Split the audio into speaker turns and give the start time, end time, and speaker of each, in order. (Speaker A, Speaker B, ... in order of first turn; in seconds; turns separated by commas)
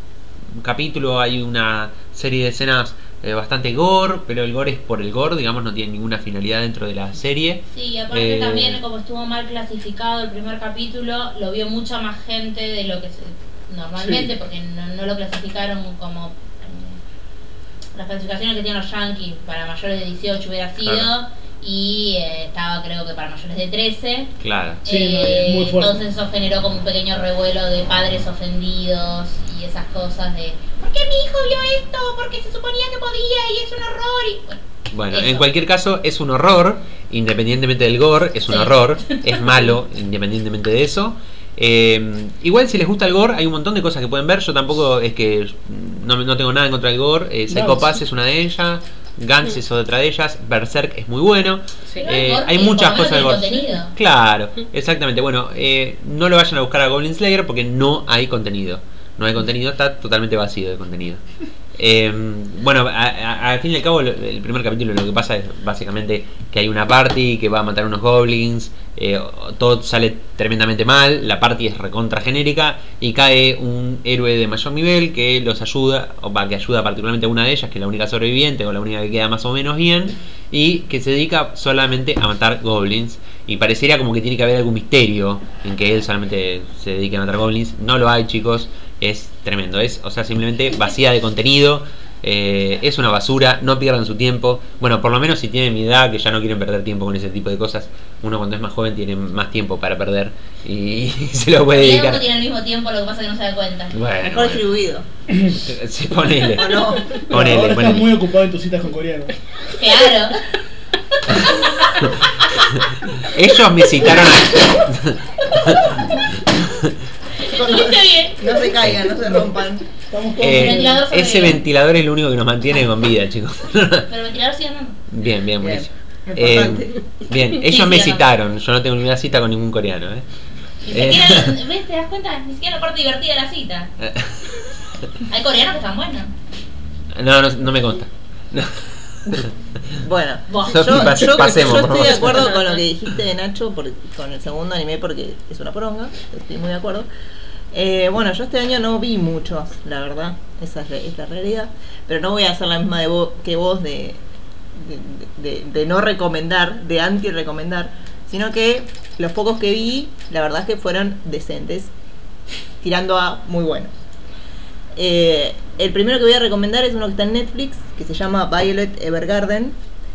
Speaker A: 0.6-8.8, Speaker B: 7.7-17.0, Speaker C: 14.0-14.3, Speaker B: 17.9-35.5, Speaker A: 20.8-21.1, Speaker A: 24.4-24.8, Speaker C: 24.8-25.9, Speaker A: 34.9-61.2, Speaker B: 38.5-39.7, Speaker C: 47.5-47.9, Speaker B: 51.9-54.0, Speaker A: 61.8-102.2, Speaker B: 101.7-103.9, Speaker A: 103.9-104.6, Speaker D: 104.2-105.0, Speaker A: 105.5-108.1, Speaker D: 106.5-107.3, Speaker C: 107.3-109.3, Speaker B: 109.7-110.4, Speaker A: 111.4-112.1, Speaker B: 111.4-111.9, Speaker A: 112.7-116.9, Speaker B: 117.4-118.5, Speaker D: 117.5-119.8, Speaker C: 120.1-121.0, Speaker A: 120.4-124.1, Speaker B: 120.4-121.6, Speaker B: 124.1-125.0, Speaker A: 125.1-130.2, Speaker D: 125.6-127.0, Speaker B: 127.6-128.3, Speaker B: 130.8-133.9, Speaker A: 130.9-131.5, Speaker A: 134.0-134.5, Speaker B: 135.3-136.3, Speaker A: 137.1-139.5, Speaker D: 140.0-147.1, Speaker B: 140.5-141.3, Speaker A: 140.7-142.6, Speaker D: 147.7-154.2, Speaker D: 154.7-161.9, Speaker D: 162.8-163.9, Speaker D: 164.9-169.8